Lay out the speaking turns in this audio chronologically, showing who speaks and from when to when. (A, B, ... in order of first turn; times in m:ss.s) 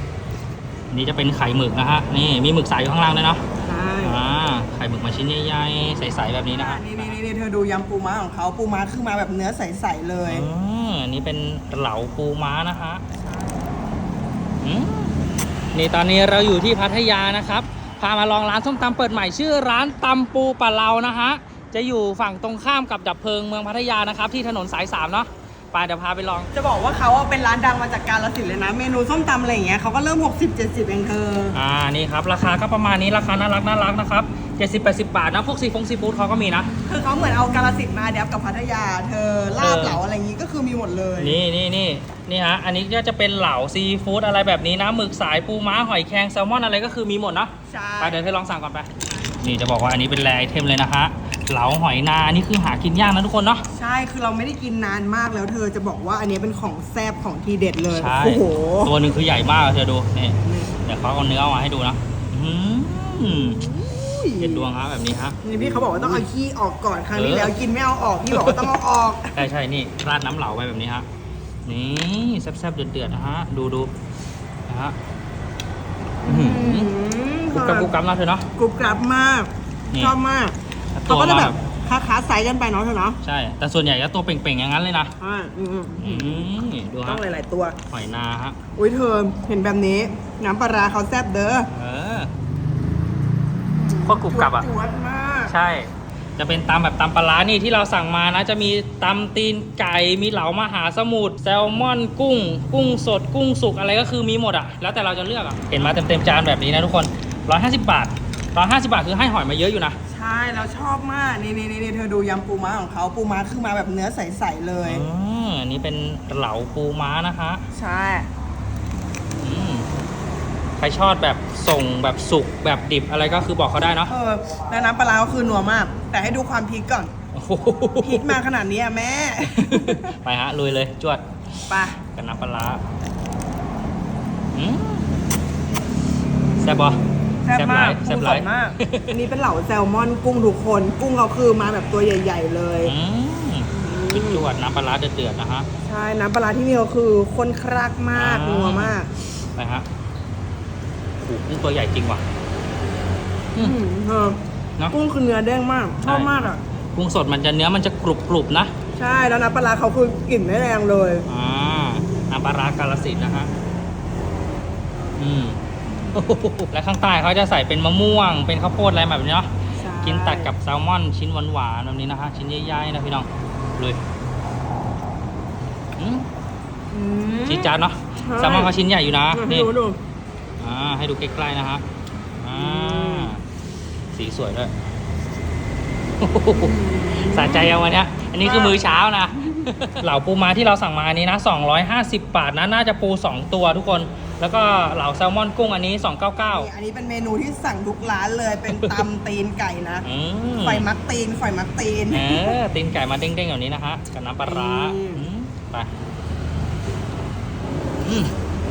0:00.9-0:03.4 A
0:03.6-0:04.2 B
0:04.0-0:07.2 A
0:06.5-0:10.5 B
0:10.3-0:13.0 A
0:13.2-0:13.7 B
0:14.6-0:15.2 A
0:15.7-0:26.5 A
0:26.5-0:31.6 B
0:31.5-0:36.7 A
0:36.8-0:41.4 B
0:39.6-0:40.0 A
0:41.2-0:48.9 A
0:47.7-0:48.2 B
0:49.4-0:53.6 A
0:53.8-0:59.0 B
0:57.9-1:03.7 A
1:00.4-1:00.7 B
1:03.6-1:04.7 B
1:04.4-1:05.4 A
1:05.4-1:09.4 B
1:07.1-1:07.5 A
1:08.3-1:08.7 A
1:09.4-1:11.1 A
1:11.7-1:13.9 A
1:14.7-1:15.0 A
1:16.2-1:17.9 B
1:16.3-1:16.9 A
1:17.5-1:18.5 A
1:18.6-1:20.6 B
1:20.9-1:21.6 A
1:21.1-1:23.2 B
1:23.2-1:25.1 A
1:25.2-1:27.8 B
1:26.0-1:27.2 A
1:27.9-1:28.6 A
1:28.8-1:31.7 B
1:31.7-1:32.3 A
1:33.8-1:35.5 B
1:34.1-1:34.7 A
1:35.5-1:50.0 A
1:50.1-1:55.0 B
1:54.8-1:57.6 A
1:57.7-1:58.3 B
1:59.4-1:59.9 A
2:00.8-2:04.1 A
2:04.1-2:07.1 B
2:07.3-2:08.4 A
2:08.0-2:10.2 B
2:09.5-2:12.8 A
2:11.7-2:12.0 B
2:14.5-2:15.1 A
2:16.6-2:17.0 A
2:17.4-2:22.9 B
2:17.5-2:19.2 A
2:22.8-2:25.7 A
2:23.7-2:24.4 B
2:25.8-2:29.1 B
2:28.1-2:29.0 A
2:29.6-2:29.9 A
2:31.2-2:32.2 A
2:33.6-2:34.4 B
2:34.9-2:36.6 B
2:36.0-2:36.4 A
2:37.0-2:38.7 A
2:39.0-2:41.3 B
2:41.3-2:43.5 A
2:45.2-2:45.6 A
2:46.1-2:49.5 A
2:49.8-2:50.5 B
2:50.0-2:54.0 A
2:56.0-2:56.3 A
2:56.9-2:58.7 B
2:57.5-2:59.7 A
2:59.3-3:00.0 B
3:00.6-3:01.8 A
3:02.4-3:03.4 A
3:02.5-3:03.3 B
3:04.1-3:04.7 A
3:06.2-3:16.7 A
3:06.5-3:07.8 B
3:08.4-3:08.8 B
3:09.4-3:09.7 B
3:16.4-3:20.1 B
3:18.7-3:19.0 A
3:20.0-3:20.8 A
3:20.6-3:22.6 B
3:22.1-3:25.9 A
3:24.4-3:25.2 B
3:28.0-3:28.4 A